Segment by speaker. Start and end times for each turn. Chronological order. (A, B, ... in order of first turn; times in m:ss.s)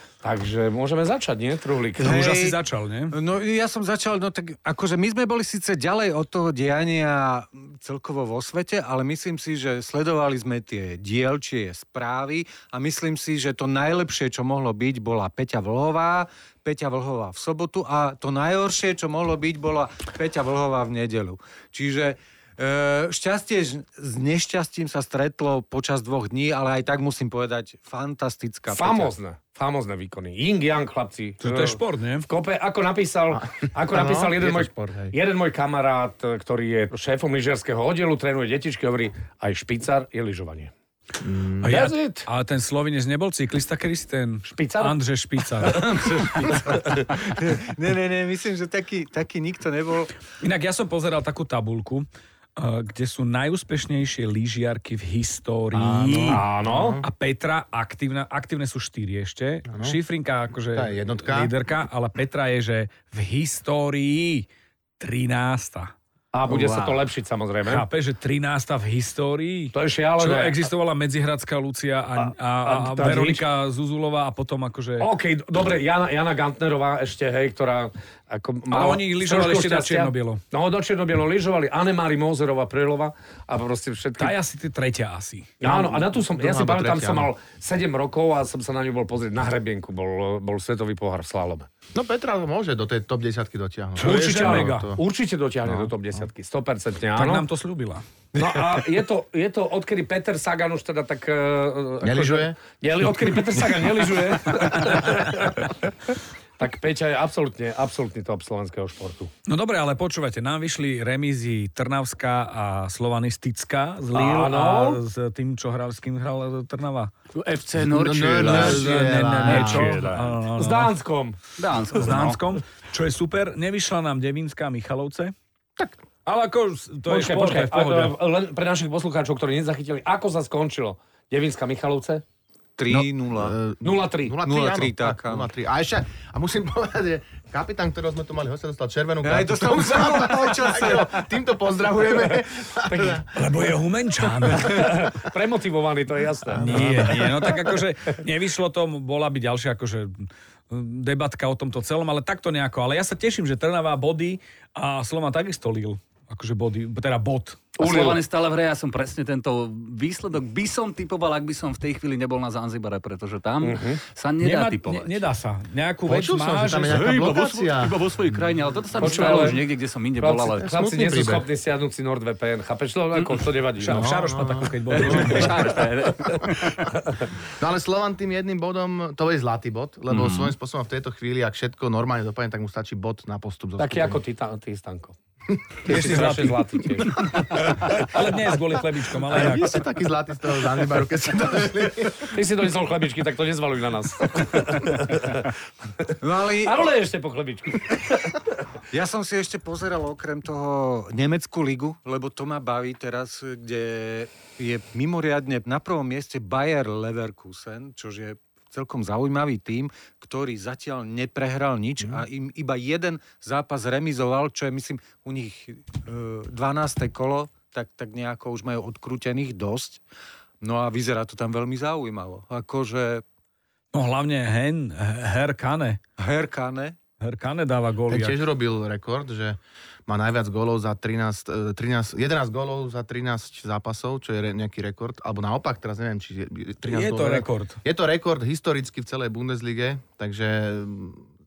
0:00.2-0:02.1 A
0:02.0-0:02.6 B
0:02.0-0:03.2 C
0:03.1-0:29.1 B
0:28.7-0:40.7 A
0:31.4-0:32.3 C
0:33.3-0:35.1 D
0:41.2-0:41.8 D
0:41.6-0:46.6 C
0:41.6-0:42.3 A
0:44.5-0:45.0 A
0:45.6-0:47.1 A
0:46.0-0:50.1 B
0:50.4-1:04.5 C
0:55.8-0:57.0 D
0:56.1-0:57.0 A
0:59.7-1:00.0 D
1:00.8-1:01.5 D
1:05.0-1:05.9 C
1:06.3-1:07.9 A
1:07.6-1:15.1 C
1:09.7-1:10.6 A
1:12.2-1:13.4 A
1:15.0-1:24.4 A
1:18.7-1:20.4 C
1:24.2-1:25.5 C
1:25.6-1:31.7 A
1:25.6-1:27.3 D
1:32.0-1:35.0 D
1:34.0-1:35.0 C
1:34.0-1:37.5 A
1:35.7-1:35.9 D
1:37.2-1:38.0 C
1:38.4-1:45.9 A
1:42.0-1:42.6 D
1:46.6-1:49.3 A
1:49.5-1:57.1 C
1:54.1-1:55.0 A
1:57.4-2:00.2 E
1:57.8-2:00.0 D
1:58.4-2:00.9 C
2:00.6-2:01.4 A
2:01.6-2:02.4 E
2:01.9-2:05.3 C
2:06.3-2:08.2 C
2:07.1-2:12.2 A
2:12.8-2:13.6 B
2:12.9-2:23.3 D
2:13.8-2:14.4 A
2:14.4-2:15.5 B
2:19.2-2:21.2 B
2:23.3-2:25.1 C
2:24.5-2:27.6 A
2:26.6-2:27.6 D
2:26.6-2:37.8 C
2:37.8-2:45.2 E
2:37.8-2:38.2 A
2:43.6-2:44.0 A
2:44.4-2:47.2 C
2:46.1-2:49.4 D
2:46.9-2:50.7 E
2:49.0-2:49.7 A
2:50.2-2:54.3 A
2:50.6-2:51.5 D
2:53.2-2:53.5 E
2:53.8-2:55.8 D
2:53.9-2:55.8 C
2:54.9-2:57.0 E
2:55.0-2:55.9 A
2:56.9-2:57.2 A
2:57.6-3:04.2 D
3:00.1-3:00.5 E
3:03.8-3:05.2 A
3:05.8-3:08.1 A
3:05.9-3:09.8 C
3:09.2-3:12.4 D
3:12.3-3:15.5 A
3:16.0-3:18.5 A
3:16.2-3:16.9 B
3:18.9-3:40.0 B
3:40.6-3:43.2 B
3:43.9-3:46.0 C
3:46.2-3:47.0 B
3:47.2-3:48.4 C
3:48.1-4:01.3 D
3:56.9-3:57.8 C